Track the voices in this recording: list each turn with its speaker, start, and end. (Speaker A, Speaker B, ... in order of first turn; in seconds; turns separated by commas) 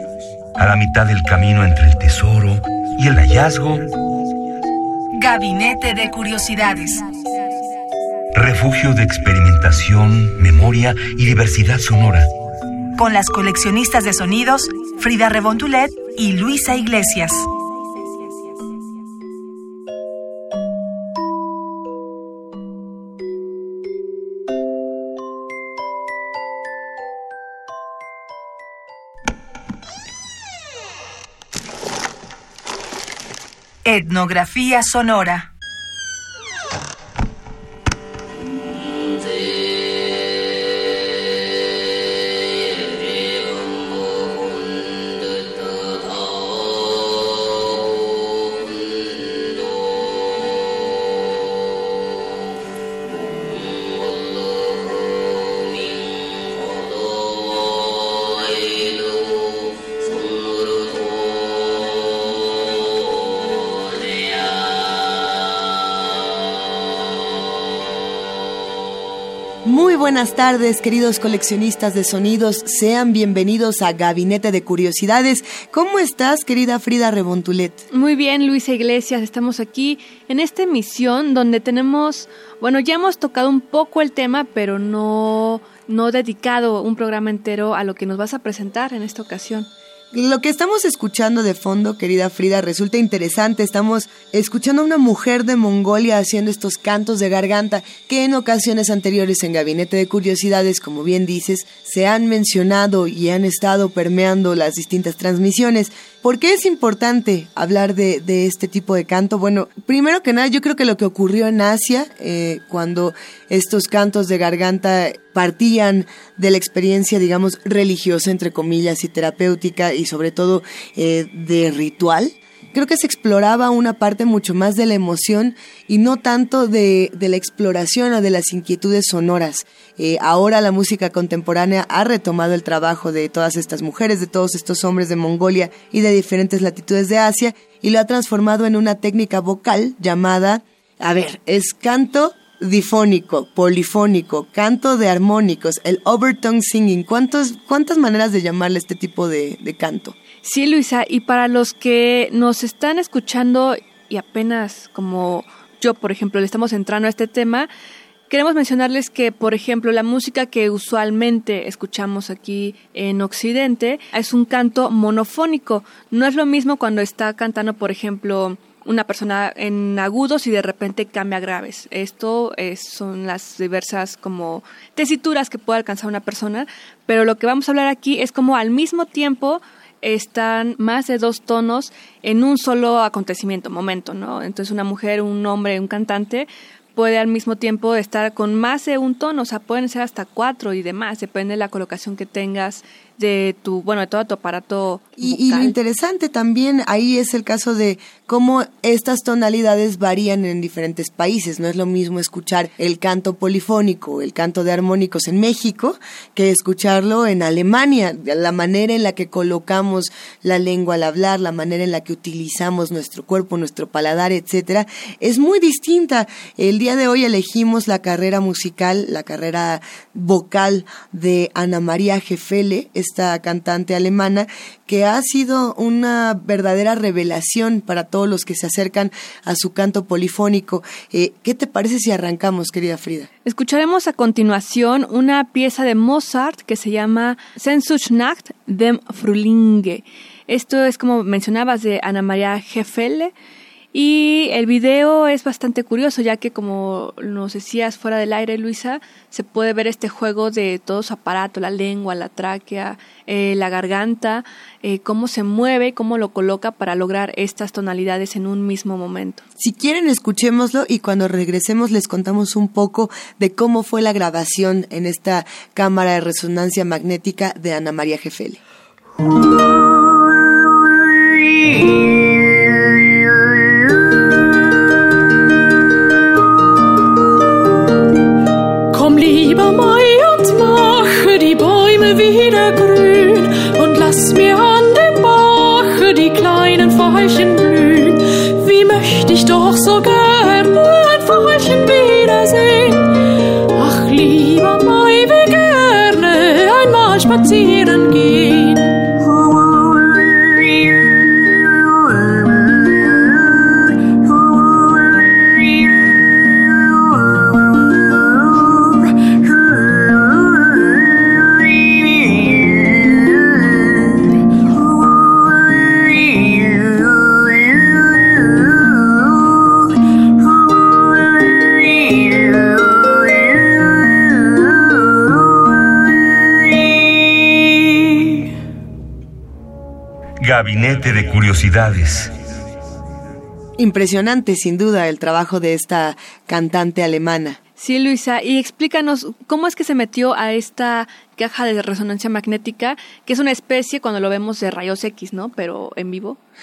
Speaker A: 0.6-3.9, Speaker B: 5.2-7.1, Speaker A: 8.3-12.3, Speaker B: 13.0-17.5, Speaker B: 33.9-35.5, Speaker C: 69.7-77.8, Speaker D: 77.9-89.7, Speaker C: 90.1-150.2, Speaker D: 150.4-157.7, Speaker D: 158.3-195.8, Speaker C: 195.2-233.3, Speaker D: 233.4-243.3, Speaker D: 243.9-259.4, Speaker C: 259.6-268.6, Speaker E: 278.9-299.1, Speaker A: 330.4-332.3, Speaker C: 333.8-337.6, Speaker D: 337.8-346.4